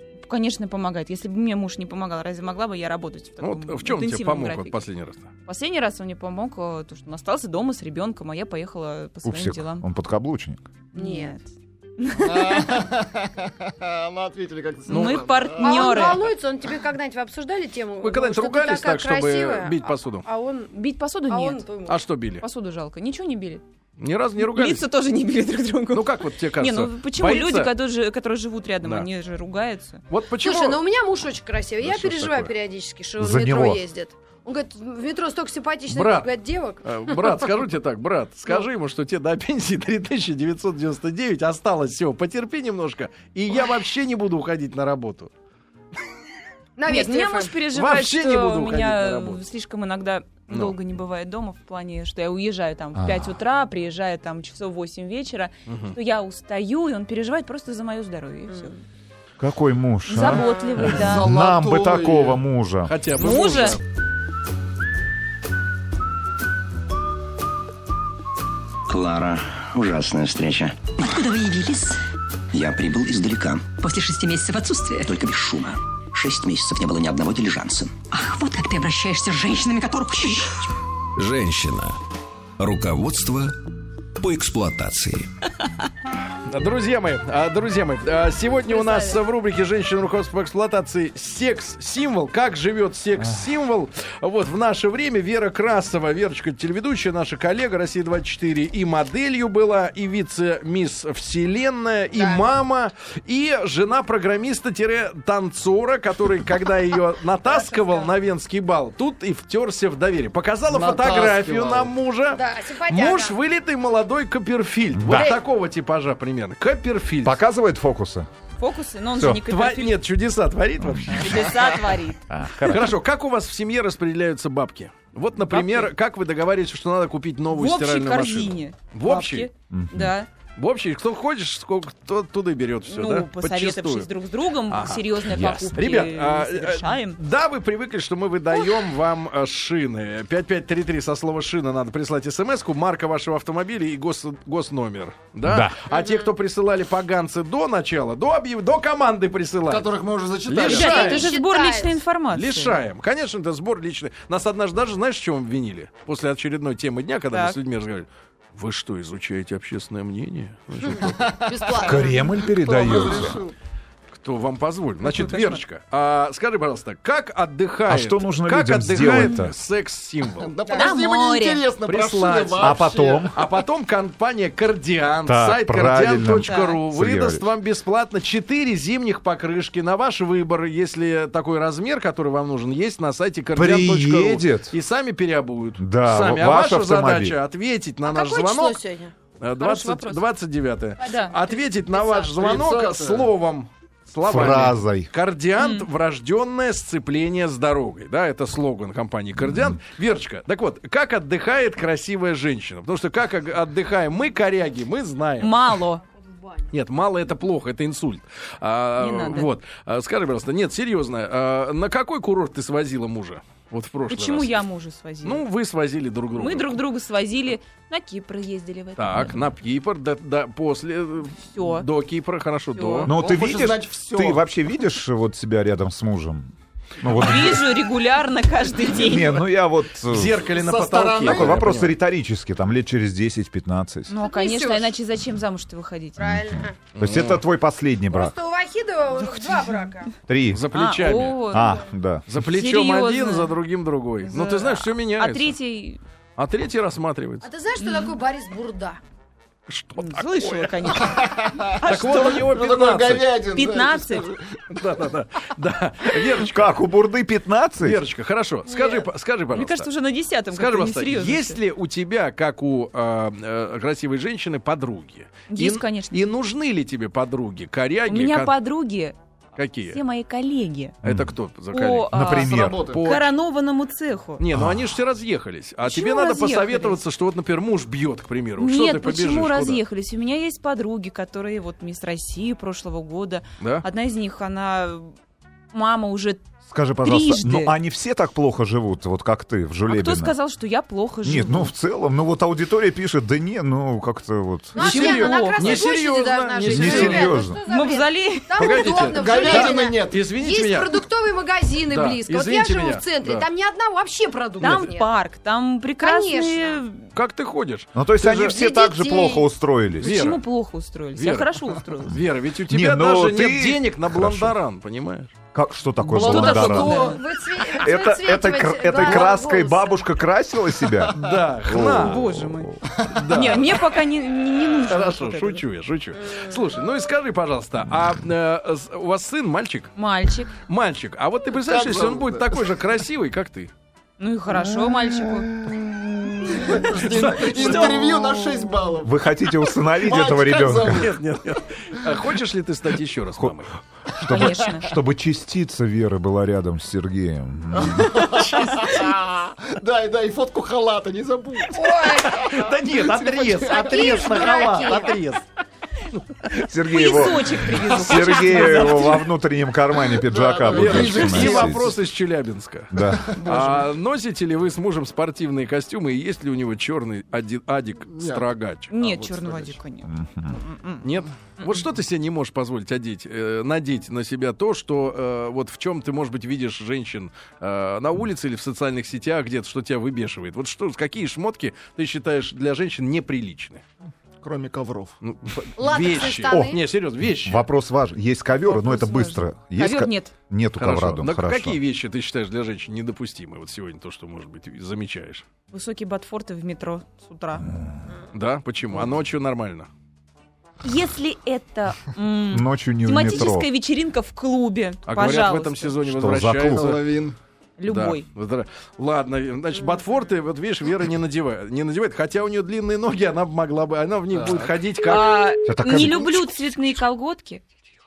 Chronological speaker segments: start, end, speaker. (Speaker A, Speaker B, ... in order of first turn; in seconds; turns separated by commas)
Speaker A: 0.2-4.8, Speaker B: 3.4-5.3, Speaker A: 5.5-9.8, Speaker C: 9.2-10.6, Speaker A: 10.9-12.9, Speaker D: 10.9-11.3, Speaker E: 12.1-16.1, Speaker B: 14.9-15.2, Speaker A: 14.9-16.2, Speaker D: 15.6-20.7, Speaker B: 18.0-20.2, Speaker A: 20.7-21.6, Speaker D: 21.3-22.0, Speaker B: 21.9-22.4, Speaker A: 22.4-23.6, Speaker B: 24.0-24.9, Speaker A: 24.4-30.0, Speaker B: 25.9-27.7, Speaker B: 30.1-30.8, Speaker D: 30.4-37.2, Speaker B: 31.8-32.5, Speaker C: 33.2-33.8, Speaker B: 35.9-36.3, Speaker B: 36.8-45.3, Speaker D: 46.8-47.5, Speaker A: 46.9-58.7, Speaker B: 47.7-49.4, Speaker B: 50.5-50.8, Speaker C: 53.0-53.4, Speaker B: 55.7-56.0, Speaker C: 59.4-62.9, Speaker A: 60.1-61.3, Speaker D: 60.3-60.8, Speaker E: 60.9-62.4, Speaker B: 62.9-63.8, Speaker A: 63.2-63.8, Speaker F: 68.9-70.9, Speaker G: 71.0-72.0, Speaker F: 72.5-73.7, Speaker G: 73.8-75.1, Speaker F: 75.0-77.9, Speaker G: 78.1-80.5, Speaker H: 81.2-82.0, Speaker H: 82.6-83.5, Speaker H: 84.2-85.3, Speaker B: 86.5-117.4, Speaker D: 88.7-89.2, Speaker D: 102.1-102.4, Speaker D: 107.5-108.1, Speaker E: 110.7-111.9, Speaker D: 112.3-113.3, Speaker C: 114.9-115.4, Speaker C: 117.2-118.3, Speaker A: 118.6-120.0, Speaker C: 119.2-119.4, Speaker B: 119.5-121.5, Speaker C: 120.8-121.4, Speaker A: 121.2-122.7, Speaker C: 122.3-122.9, Speaker B: 122.7-129.5, Speaker A: 125.5-125.9, Speaker A: 127.5-130.3, Speaker C: 129.7-130.1, Speaker B: 130.6-134.1, Speaker A: 132.9-137.2, Speaker B: 134.7-149.9, Speaker C: 135.3-135.8, Speaker C: 145.4-145.8, Speaker D: 145.9-146.3, Speaker E: 149.7-151.3, Speaker B: 150.4-151.2, Speaker D: 150.7-152.0, Speaker A: 150.7-152.8, Speaker B: 152.3-161.2, Speaker A: 157.3-157.6, Speaker D: 160.8-163.3, Speaker E: 161.0-162.1, Speaker C: 161.8-163.4, Speaker E: 162.7-163.5, Speaker B: 164.1-170.5, Speaker A: 165.0-165.6, Speaker C: 167.9-169.5, Speaker A: 169.0-169.4, Speaker E: 170.4-173.3, Speaker D: 170.6-170.9, Speaker A: 170.7-171.6, Speaker B: 171.8-188.8, Speaker C: 172.6-173.4, Speaker C: 175.2-177.5, Speaker A: 176.5-176.8, Speaker C: 183.5-184.8, Speaker C: 185.8-187.4, Speaker D: 188.0-189.1, Speaker B: 189.4-205.6, Speaker A: 189.6-190.2, Speaker A: 191.0-191.4, Speaker D: 191.1-192.5, Speaker E: 192.3-193.3, Speaker C: 194.2-195.1, Speaker A: 195.6-195.9, Speaker A: 205.4-206.0, Speaker B: 206.7-214.6, Speaker A: 209.0-209.5, Speaker A: 214.1-215.4, Speaker B: 215.2-216.8, Speaker A: 216.3-219.4, Speaker B: 219.0-223.1, Speaker A: 221.4-221.9, Speaker A: 222.7-223.1, Speaker C: 223.1-227.8, Speaker E: 223.1-224.4, Speaker A: 227.1-229.4, Speaker C: 228.8-230.4, Speaker B: 230.1-231.9, Speaker E: 230.5-231.6, Speaker C: 231.2-234.1, Speaker A: 234.1-236.4, Speaker D: 234.2-234.9, Speaker C: 236.2-238.3, Speaker D: 236.2-236.7, Speaker B: 236.9-237.4, Speaker D: 238.1-240.1, Speaker A: 239.2-239.9, Speaker C: 240.3-240.7, Speaker B: 240.5-241.4, Speaker A: 240.7-241.8, Speaker C: 241.5-242.3, Speaker B: 242.3-245.5, Speaker A: 242.4-243.5, Speaker A: 244.2-246.0, Speaker B: 246.4-247.5, Speaker D: 247.4-249.0, Speaker A: 247.8-248.2, Speaker B: 249.7-250.7, Speaker A: 250.0-252.4, Speaker E: 251.0-254.6, Speaker B: 251.8-253.3, Speaker A: 253.5-254.3, Speaker B: 254.7-256.7, Speaker C: 256.4-258.0, Speaker B: 257.8-259.9, Speaker D: 258.7-259.1, Speaker A: 259.5-261.6, Speaker B: 260.5-268.5, Speaker A: 265.5-266.2, Speaker A: 268.1-269.1, Speaker B: 269.6-270.0, Speaker A: 269.9-270.9, Speaker B: 271.0-273.3, Speaker C: 271.0-271.4, Speaker A: 271.7-274.4, Speaker C: 272.1-272.8, Speaker E: 272.5-273.1, Speaker B: 274.4-279.8, Speaker C: 274.5-274.9, Speaker A: 275.8-277.0, Speaker A: 278.6-285.1, Speaker A: 285.7-286.4, Speaker C: 286.7-290.4, Speaker A: 287.0-287.8, Speaker A: 289.9-291.7, Speaker C: 291.2-294.8, Speaker D: 294.7-305.1, Speaker A: 294.8-295.8, Speaker B: 294.8-297.4, Speaker C: 296.6-297.6, Speaker A: 297.7-299.0, Speaker B: 298.6-301.0, Speaker E: 299.1-300.3, Speaker B: 301.9-303.4, Speaker A: 304.6-307.1, Speaker D: 306.0-306.8, Speaker B: 307.1-307.9, Speaker C: 307.9-310.2, Speaker D: 308.2-309.4, Speaker A: 310.0-312.1, Speaker B: 310.0-310.4, Speaker B: 311.1-315.3, Speaker C: 312.7-314.6, Speaker C: 315.5-317.0, Speaker A: 316.1-317.2, Speaker E: 316.2-317.2, Speaker D: 316.2-320.0, Speaker C: 317.7-322.7, Speaker B: 321.1-322.3, Speaker A: 321.9-325.6, Speaker B: 323.0-323.8, Speaker B: 324.9-329.9, Speaker D: 326.2-326.6, Speaker A: 329.9-330.5, Speaker B: 330.7-333.7, Speaker E: 331.6-332.6, Speaker A: 334.2-335.5, Speaker E: 334.7-339.1, Speaker A: 336.4-336.8, Speaker B: 336.5-338.0, Speaker A: 337.5-338.4, Speaker C: 339.0-341.1, Speaker E: 340.0-341.1, Speaker B: 340.8-343.7, Speaker C: 344.1-348.1, Speaker A: 344.2-344.9, Speaker E: 347.9-351.8, Speaker B: 348.2-348.9, Speaker A: 348.5-348.9, Speaker D: 351.7-352.5, Speaker B: 352.0-355.4, Speaker E: 352.8-354.2, Speaker D: 353.6-355.1, Speaker B: 356.1-356.6, Speaker C: 356.6-361.9, Speaker A: 356.9-359.2, Speaker B: 357.9-358.9, Speaker E: 360.1-362.0, Speaker B: 360.6-368.9, Speaker C: 362.9-363.4, Speaker E: 363.0-363.9, Speaker E: 368.1-369.8, Speaker A: 368.9-371.1, Speaker C: 370.0-370.6, Speaker B: 371.0-383.8, Speaker E: 384.4-385.1, Speaker B: 385.2-387.6, Speaker D: 385.8-386.8, Speaker C: 386.5-391.8, Speaker A: 388.7-390.3, Speaker B: 390.8-395.4, Speaker A: 395.7-397.7, Speaker B: 398.3-399.9, Speaker A: 400.8-405.9, Speaker C: 402.5-403.7, Speaker B: 405.1-407.1, Speaker C: 406.0-407.0, Speaker E: 406.7-407.4, Speaker A: 407.8-408.2, Speaker B: 407.9-415.3, Speaker E: 414.3-414.7, Speaker A: 415.0-417.6, Speaker C: 415.6-416.6